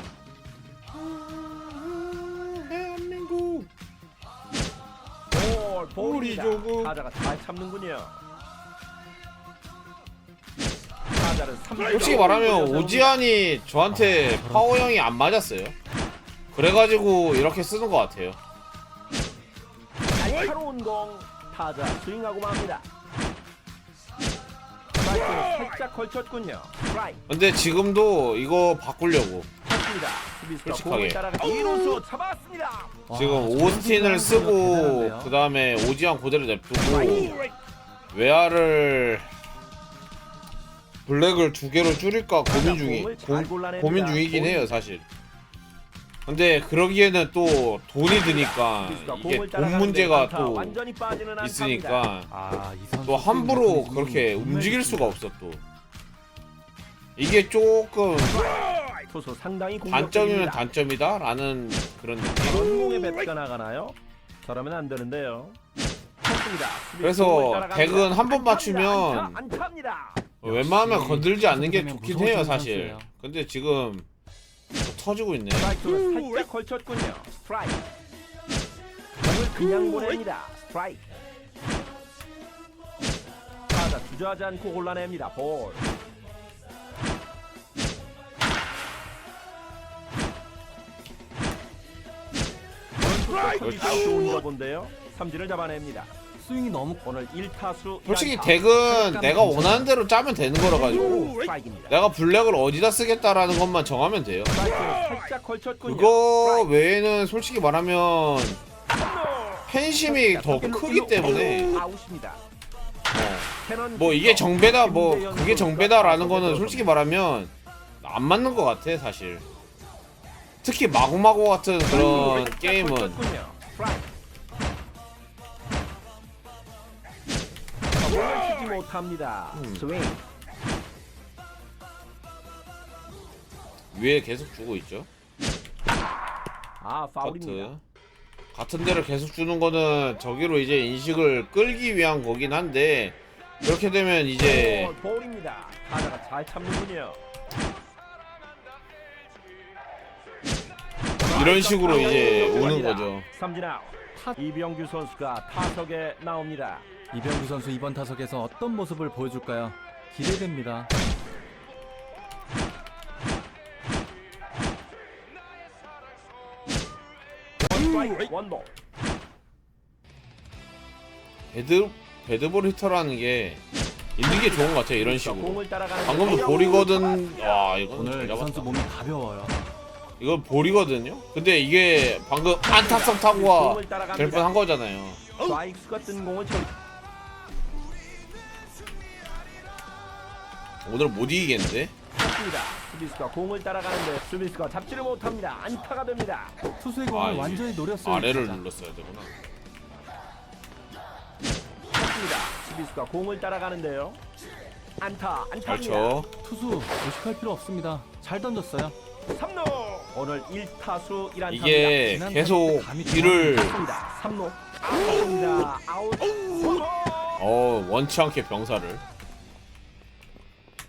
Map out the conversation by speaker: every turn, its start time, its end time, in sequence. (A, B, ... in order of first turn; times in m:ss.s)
0:01.1-0:03.7 A
0:05.3-0:08.2 B
0:06.0-0:06.9 A
0:11.1-0:13.2 B
0:11.9-0:15.8 A
0:13.9-0:14.7 C
0:16.5-0:18.4 A
0:20.1-0:22.9 B
0:25.0-0:27.2 B
0:27.3-0:29.5 A
0:29.6-0:33.0 B
0:30.6-0:31.2 A
0:33.1-0:35.4 C
0:33.1-0:37.4 A
0:36.8-0:37.5 B
0:38.1-0:39.3 A
0:41.1-0:45.0 A
0:42.5-0:44.7 B
0:46.3-0:50.8 A
0:48.1-0:52.1 B
0:51.4-0:52.3 A
0:52.3-0:55.2 C
0:53.1-0:55.6 A
0:57.2-0:58.4 A
0:58.2-1:00.6 B
0:59.9-1:02.7 A
1:02.5-1:05.6 B
1:06.2-1:10.3 B
1:07.0-1:09.4 A
1:10.4-1:14.1 A
1:10.4-1:13.1 C
1:14.8-1:15.7 A
1:15.6-1:17.8 B
1:19.2-1:21.1 B
1:23.7-1:25.9 B
1:33.0-1:36.1 B
1:33.6-1:34.2 A
1:36.4-1:37.0 C
1:37.0-1:38.6 B
1:38.1-1:41.4 A
1:38.8-1:39.9 C
1:40.7-1:42.0 B
1:41.9-1:44.6 A
1:44.5-1:46.7 B
1:45.8-1:48.6 A
1:48.9-1:52.4 B
1:49.7-1:51.8 A
1:53.1-1:59.4 A
1:53.6-1:56.9 B
2:00.6-2:03.2 A
2:01.9-2:04.1 B
2:08.0-2:10.2 B
2:09.5-2:09.8 A
2:13.9-2:15.1 A
2:16.8-2:17.7 B
2:17.2-2:17.8 A
2:18.5-2:24.9 A
2:24.4-2:27.2 B
2:31.2-2:36.9 B
2:31.3-2:33.3 A
2:37.1-2:40.9 C
2:47.6-2:48.7 B
2:51.5-2:53.6 A
2:54.2-2:58.8 A
2:54.2-2:57.2 B
2:58.0-2:59.6 C
3:00.2-3:05.2 A
3:02.6-3:04.5 B
3:05.4-3:06.7 B
3:10.8-3:11.9 A
3:12.1-3:16.6 B
3:16.8-3:18.6 C
3:17.1-3:19.3 A
3:21.9-3:24.2 B
3:25.0-3:26.2 B
3:25.7-3:26.3 A
3:26.4-3:29.0 C
3:29.3-3:32.0 B
3:31.5-3:33.8 A
3:32.0-3:33.8 C
3:33.5-3:37.4 B
3:37.4-3:39.0 A